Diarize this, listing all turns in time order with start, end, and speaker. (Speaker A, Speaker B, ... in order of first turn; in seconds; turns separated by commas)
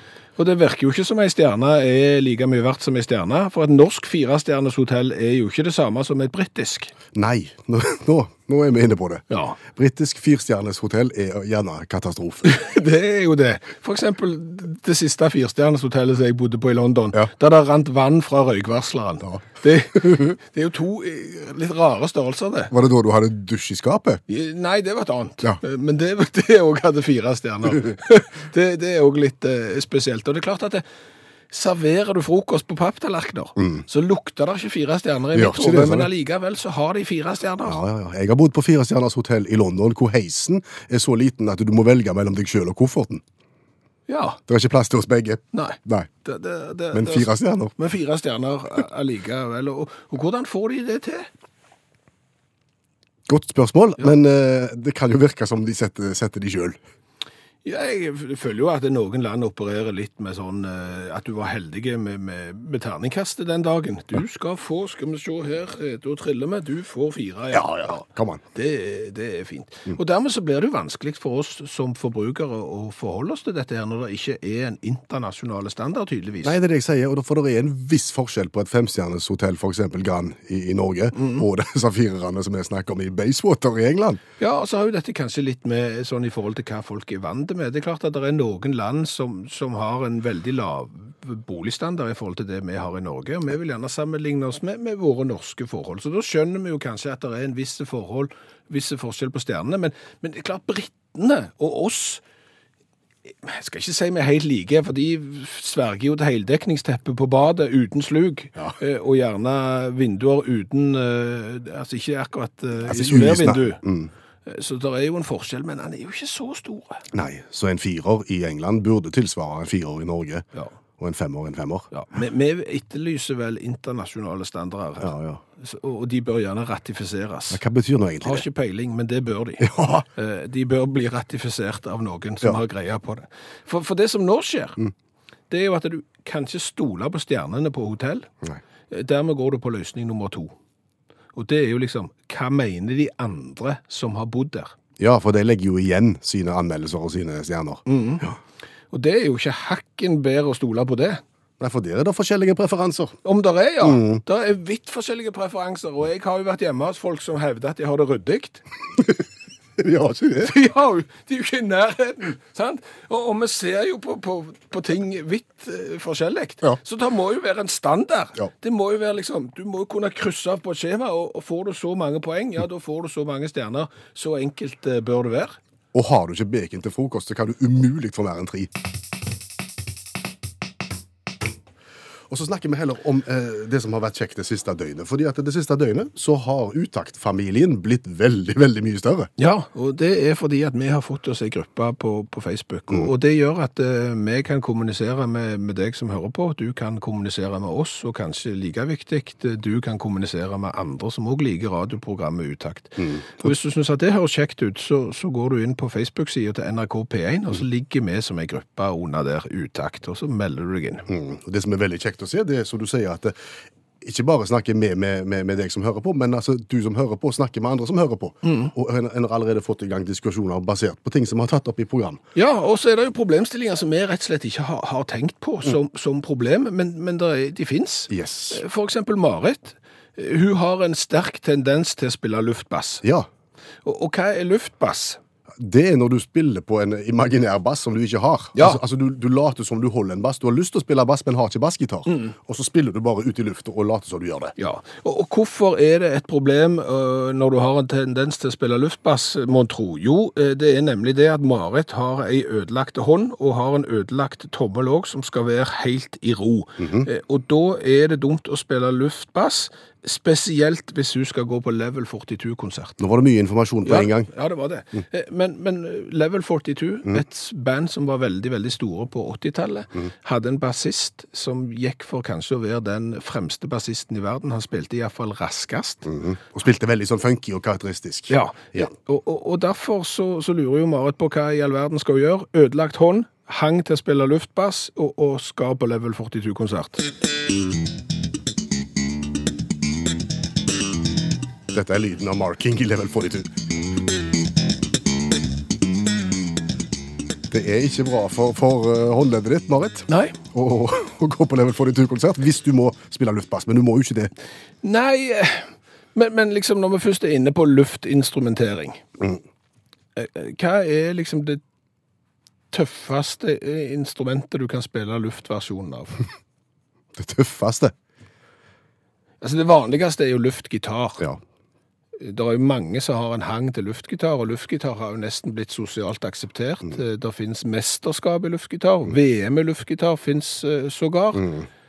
Speaker A: 0.4-6.9, Speaker B: 7.1-12.6, Speaker A: 9.3-9.6, Speaker A: 12.4-22.7, Speaker B: 22.7-24.2, Speaker A: 24.3-30.8, Speaker A: 31.5-37.8, Speaker B: 33.6-33.8, Speaker B: 35.3-36.1, Speaker B: 37.6-43.2, Speaker A: 44.1-44.4, Speaker B: 44.5-46.1, Speaker A: 45.5-51.3, Speaker B: 46.9-47.7, Speaker B: 53.3-56.8, Speaker A: 57.6-76.5, Speaker B: 67.5-68.4, Speaker B: 76.4-84.2, Speaker A: 81.2-81.5, Speaker A: 84.4-102.2, Speaker A: 103.3-113.8, Speaker B: 112.8-114.1, Speaker A: 114.5-117.0, Speaker B: 117.1-120.4, Speaker B: 121.0-121.9, Speaker A: 121.9-127.6, Speaker B: 125.0-125.4, Speaker B: 127.5-128.4, Speaker A: 128.2-134.8, Speaker B: 129.6-130.1, Speaker A: 135.5-138.3, Speaker A: 138.9-140.5, Speaker A: 141.3-144.8, Speaker B: 145.0-148.4, Speaker A: 147.9-148.3, Speaker A: 148.9-151.2, Speaker B: 151.6-153.2, Speaker A: 153.2-158.6, Speaker B: 153.8-154.2, Speaker B: 159.8-160.5, Speaker A: 160.4-175.6, Speaker B: 175.9-178.7, Speaker B: 182.3-189.3, Speaker A: 189.4-211.1, Speaker B: 203.0-203.5, Speaker B: 211.1-213.3, Speaker B: 214.0-222.2, Speaker A: 218.4-218.7, Speaker A: 222.3-233.0, Speaker B: 228.1-228.6, Speaker B: 233.0-233.3, Speaker A: 233.8-235.2, Speaker B: 235.6-244.5, Speaker A: 238.6-238.8, Speaker A: 244.6-263.0, Speaker B: 256.8-257.1, Speaker B: 263.0-264.3, Speaker A: 263.8-276.1, Speaker B: 276.1-278.9, Speaker A: 278.3-287.1, Speaker B: 291.7-293.5, Speaker B: 297.5-304.3, Speaker A: 300.1-300.4, Speaker A: 304.8-309.0, Speaker A: 310.2-311.6, Speaker A: 312.7-316.2, Speaker B: 317.2-317.9, Speaker A: 319.4-321.2, Speaker A: 322.2-331.6, Speaker B: 331.4-331.7